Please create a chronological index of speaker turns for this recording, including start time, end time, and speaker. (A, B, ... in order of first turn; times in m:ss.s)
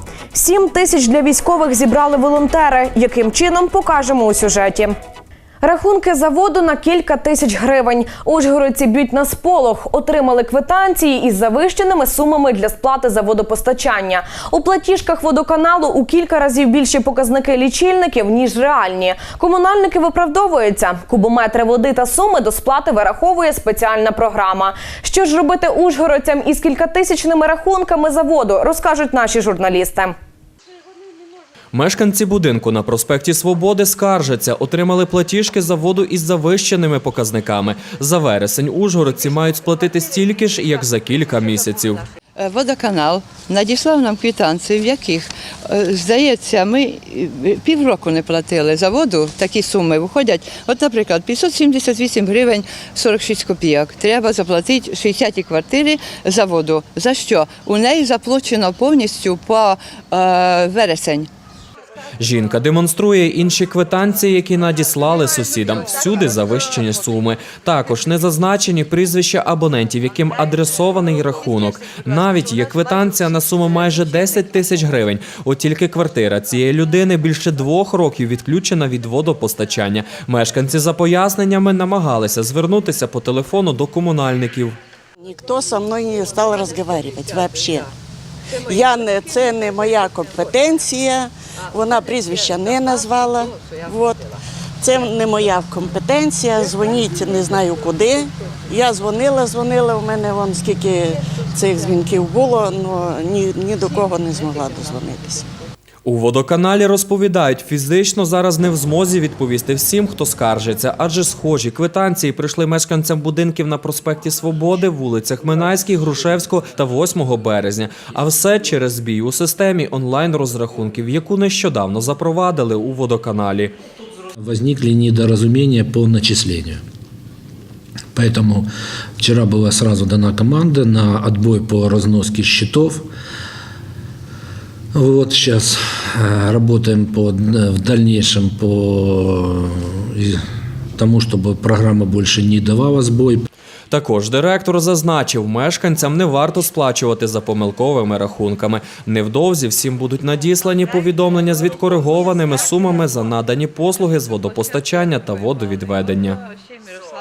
0:00.3-0:04.9 A
0:05.6-0:30.1 A
0:31.7-0:42.0 B
0:42.4-1:01.3 C
1:02.2-1:24.7 B
1:25.2-1:27.9 D
1:28.7-1:34.2 D
1:34.8-1:45.4 D
1:46.0-2:03.7 B
2:04.4-2:06.8 E
2:08.1-2:08.7 E
2:09.2-2:13.1 E
2:14.9-2:20.4 E
2:21.0-2:23.4 E
2:23.9-2:36.4 B